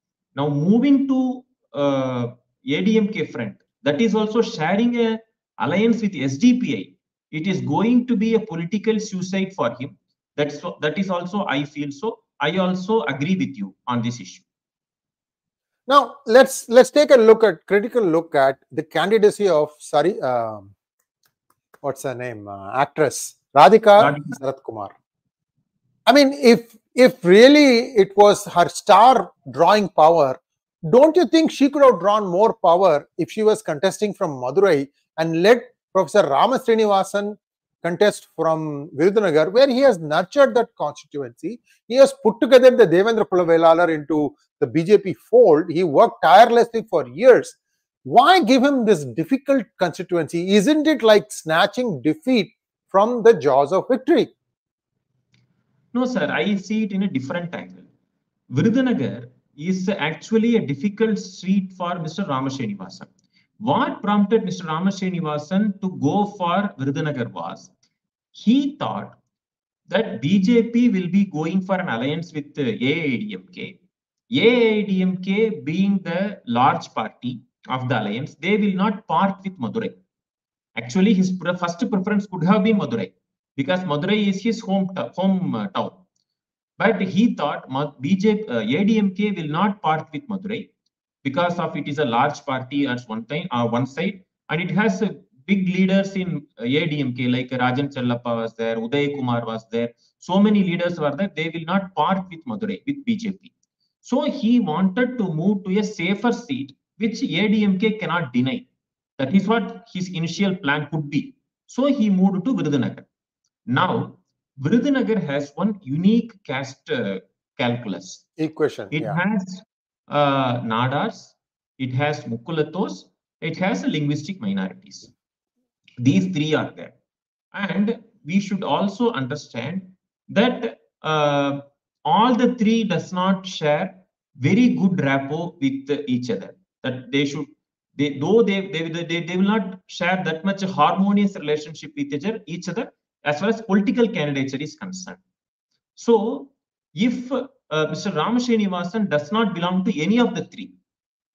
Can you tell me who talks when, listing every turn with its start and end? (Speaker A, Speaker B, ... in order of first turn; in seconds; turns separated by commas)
Speaker A: 0.3-14.4, Speaker B: 15.9-20.7, Speaker B: 21.8-24.9, Speaker A: 24.0-24.4, Speaker B: 26.1-54.3, Speaker A: 55.9-57.9, Speaker A: 58.5-63.1, Speaker A: 63.6-67.7, Speaker A: 68.3-69.2, Speaker A: 69.9-73.8, Speaker A: 74.3-80.0, Speaker A: 80.7-86.0, Speaker A: 86.8-90.7, Speaker A: 91.2-103.5, Speaker A: 104.0-108.6, Speaker A: 109.2-113.1, Speaker A: 113.7-118.2, Speaker B: 118.4-119.2, Speaker A: 118.9-125.1, Speaker A: 126.0-127.0, Speaker A: 127.5-145.2, Speaker A: 145.9-150.7